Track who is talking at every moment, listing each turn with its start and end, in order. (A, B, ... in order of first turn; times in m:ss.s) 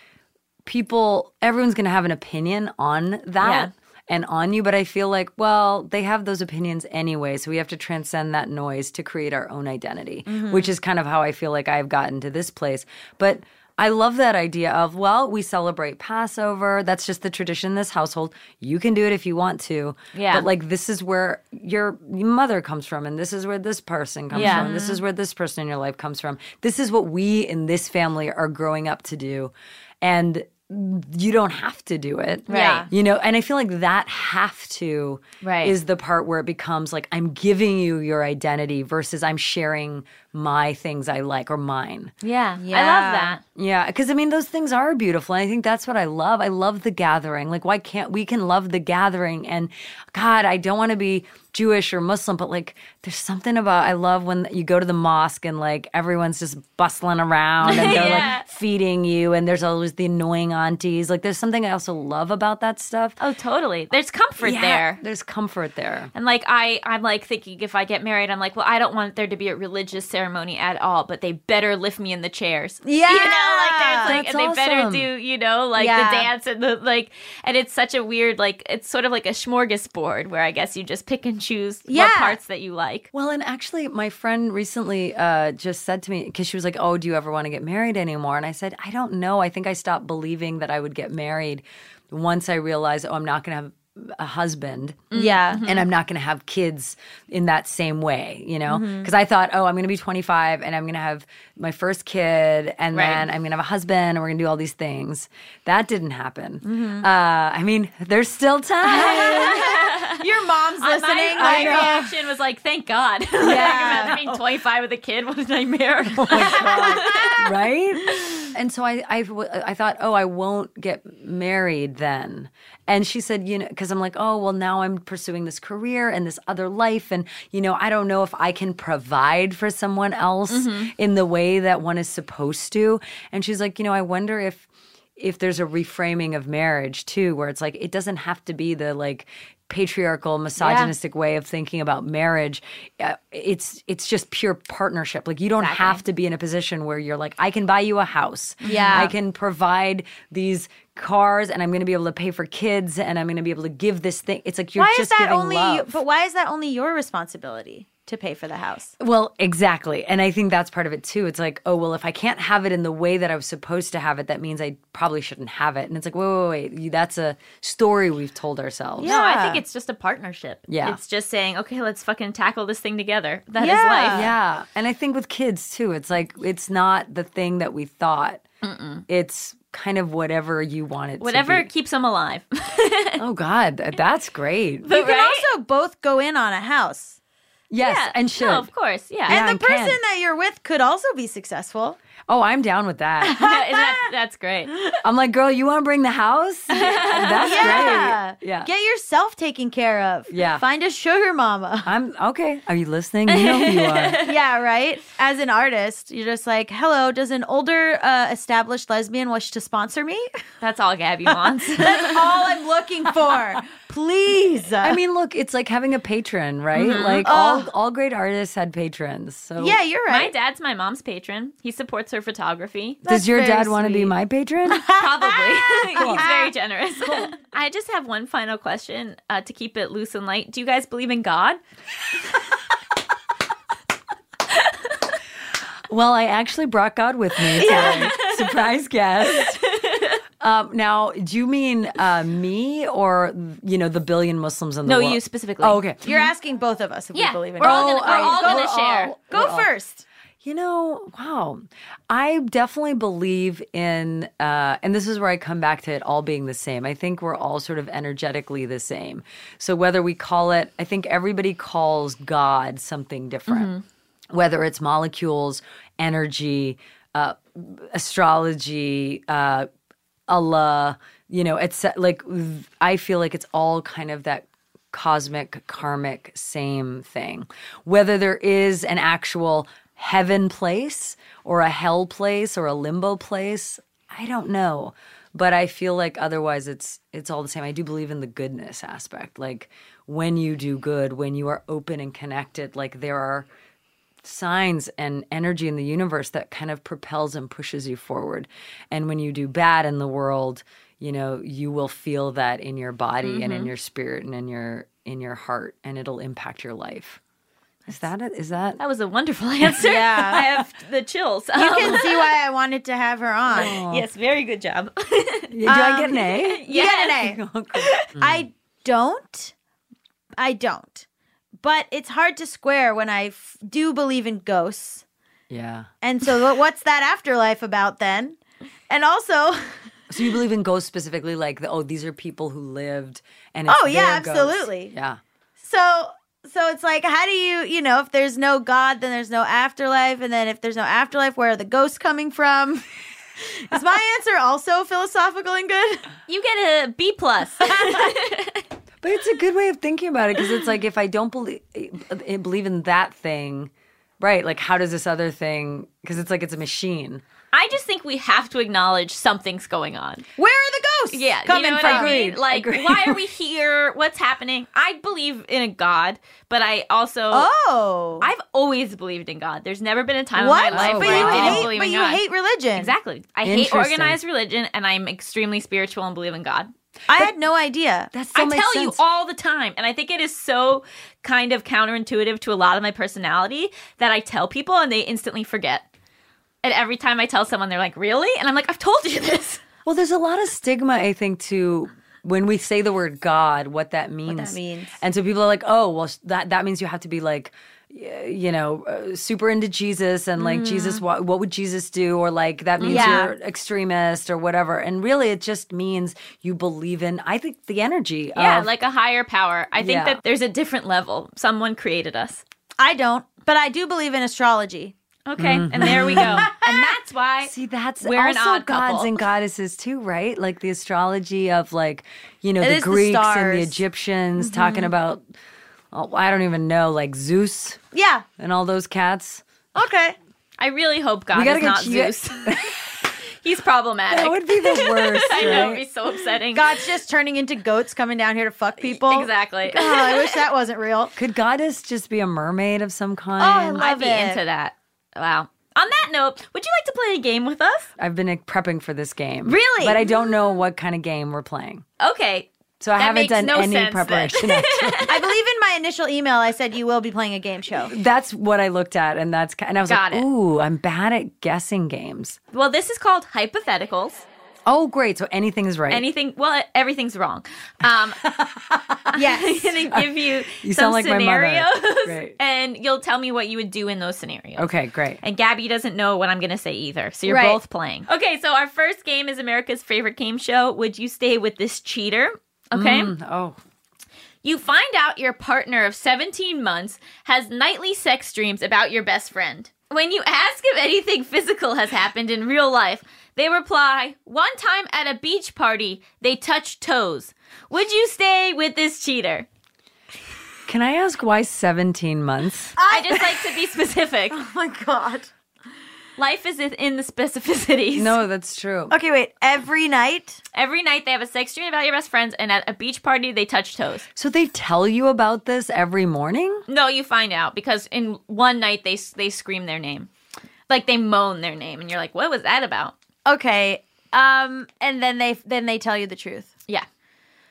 0:00.6-0:42.1 A
0:03.4-0:03.7 B
0:10.3-0:10.7 C
0:20.1-0:20.5 B
0:24.3-0:24.9 C
0:24.3-0:25.0 B
0:32.5-0:32.9 B
0:32.5-0:32.9 C
0:35.4-0:35.7 B
0:42.2-0:43.4 B
0:42.6-0:43.4 C
0:43.5-1:03.2 A
0:57.6-0:58.4 B
1:03.2-1:05.0 B
1:04.4-1:06.1 A
1:06.1-1:23.1 B
1:12.8-1:14.2 C
1:14.0-1:15.1 A
1:15.8-1:16.3 C
1:21.9-1:22.4 C
1:23.1-1:49.7 A
1:35.1-1:35.6 C
1:35.1-1:35.8 B
1:38.7-1:39.1 C
1:42.9-1:43.3 B
1:46.6-1:47.1 C
1:48.9-1:52.1 C
1:49.0-1:50.2 B
1:50.8-1:57.5 B
1:51.4-1:52.0 A
1:53.4-1:54.2 C
1:53.5-1:54.3 A
1:56.1-2:36.0 A
1:56.3-1:57.4 C
1:58.1-1:58.5 B
2:10.5-2:10.9 B
2:20.6-2:20.9 B
2:25.6-2:26.0 B
2:28.6-2:29.1 B
2:28.6-2:29.1 C
2:34.8-2:38.9 C
2:39.0-2:49.1 A
2:49.0-2:49.6 C
2:49.0-2:54.3 B
2:50.7-2:51.0 A
2:53.6-2:54.3 C
2:54.1-2:58.4 A
2:58.6-2:59.0 B
2:59.1-3:01.7 A
3:01.2-3:03.2 B
3:03.2-3:04.9 A
3:04.8-3:05.5 B
3:04.9-3:07.2 C
3:07.7-3:08.7 A
3:07.8-3:09.4 B
3:09.3-3:10.0 A
3:09.3-3:12.0 C
3:12.3-3:13.4 A
3:13.2-3:14.8 B
3:13.4-3:14.1 C
3:15.0-3:18.7 A
3:16.7-3:18.0 B
3:17.4-3:21.9 C
3:20.3-3:20.6 A
3:21.8-3:24.2 A
3:23.3-3:24.3 B
3:24.2-3:30.3 C
3:30.6-3:32.2 B
3:31.3-3:35.0 C
3:34.8-3:39.8 A
3:36.8-3:37.3 B
3:36.8-3:37.7 C
3:39.6-3:40.3 C
3:40.1-3:43.0 B
3:43.0-3:44.1 C
3:43.1-3:44.9 A
3:44.6-3:46.5 C
3:44.9-3:51.6 B
3:45.9-3:46.3 A
3:47.0-3:47.3 A
3:55.9-3:59.6 A
3:57.6-3:58.6 B
3:57.6-3:58.1 C
3:59.2-4:00.2 B
4:00.4-4:06.0 A
4:04.8-4:06.3 B
4:06.0-4:10.0 C
4:07.1-4:09.1 B
4:07.6-4:09.7 A
4:10.4-4:23.7 A
4:23.5-4:23.8 B
4:24.3-4:29.7 A
4:30.3-4:53.5 A
4:54.2-5:07.2 A
5:03.2-5:03.7 B
5:07.9-5:08.8 A
5:08.8-5:12.3 B
5:09.8-5:10.4 C
5:11.6-5:13.7 C
5:13.5-5:14.0 A
5:13.5-5:15.6 B
5:15.5-5:18.4 A
5:15.6-5:17.4 C
5:16.4-5:17.2 B
5:17.8-5:18.1 B
5:18.1-5:19.5 C
5:20.4-5:21.0 C
5:21.6-5:25.0 C
5:25.5-5:25.9 A
5:26.0-5:28.4 C
5:28.9-5:29.9 C
5:30.1-5:35.2 A
5:33.7-5:34.9 C
5:35.6-5:42.8 C
5:43.4-5:46.1 C
5:46.3-5:48.6 B
5:47.7-5:48.0 C
5:49.0-5:57.2 A
5:57.5-6:00.2 B
6:00.4-6:02.2 C
6:01.1-6:07.5 B
6:01.8-6:03.2 A
6:07.3-6:08.3 C
6:08.2-6:12.2 B
6:10.4-6:12.9 C
6:10.7-6:11.7 A
6:12.8-6:16.7 B
6:13.4-6:14.2 A
6:17.1-6:18.1 C
6:18.1-6:19.0 A
6:18.3-6:25.8 B
6:26.6-6:29.6 B
6:29.8-6:48.7 A
6:34.3-6:35.0 C
6:40.4-6:41.0 C
6:42.8-6:43.2 B
6:42.8-6:43.3 C
6:48.3-6:52.4 B
6:49.8-6:50.2 A
6:52.8-6:54.9 C
6:55.3-6:59.2 B
6:55.4-6:56.5 A
6:55.8-6:56.7 C
6:57.4-7:05.2 A
7:02.6-7:03.8 C
7:04.4-7:04.9 C
7:05.9-7:07.8 A
7:07.9-7:08.2 C
7:08.4-7:09.4 A
7:09.7-7:10.2 C
7:10.6-7:12.7 B
7:11.3-7:13.0 A
7:13.4-7:16.8 B
7:14.1-7:15.8 A
7:15.4-7:15.7 C
7:16.5-7:21.1 C
7:18.8-7:20.4 B
7:21.2-7:23.8 A
7:23.4-7:24.4 C
7:23.8-7:27.9 B
7:28.0-7:31.8 A
7:29.5-7:30.0 B
7:29.7-7:30.0 C
7:32.0-7:35.2 B
7:32.8-7:35.1 A
7:35.1-7:37.9 C
7:37.9-7:42.4 A
7:39.9-7:40.2 B
7:42.5-7:44.2 B
7:44.6-7:46.0 A
7:45.9-7:48.2 B
7:48.2-7:49.2 A
7:49.1-8:03.1 B
7:49.1-7:49.8 C
7:49.9-7:52.4 A
7:54.6-7:55.2 A
7:57.2-7:57.6 C
8:02.7-8:03.6 A
8:04.4-8:19.4 B
8:20.7-8:22.7 A
8:22.8-8:23.5 C
8:22.8-8:24.4 B
8:24.3-8:25.3 C
8:26.2-8:28.2 B
8:27.9-8:28.9 A
8:28.9-8:30.4 C
8:30.5-8:34.1 B
8:34.2-8:36.6 A
8:36.7-8:40.1 B
8:40.7-8:42.9 B
8:43.2-8:46.5 C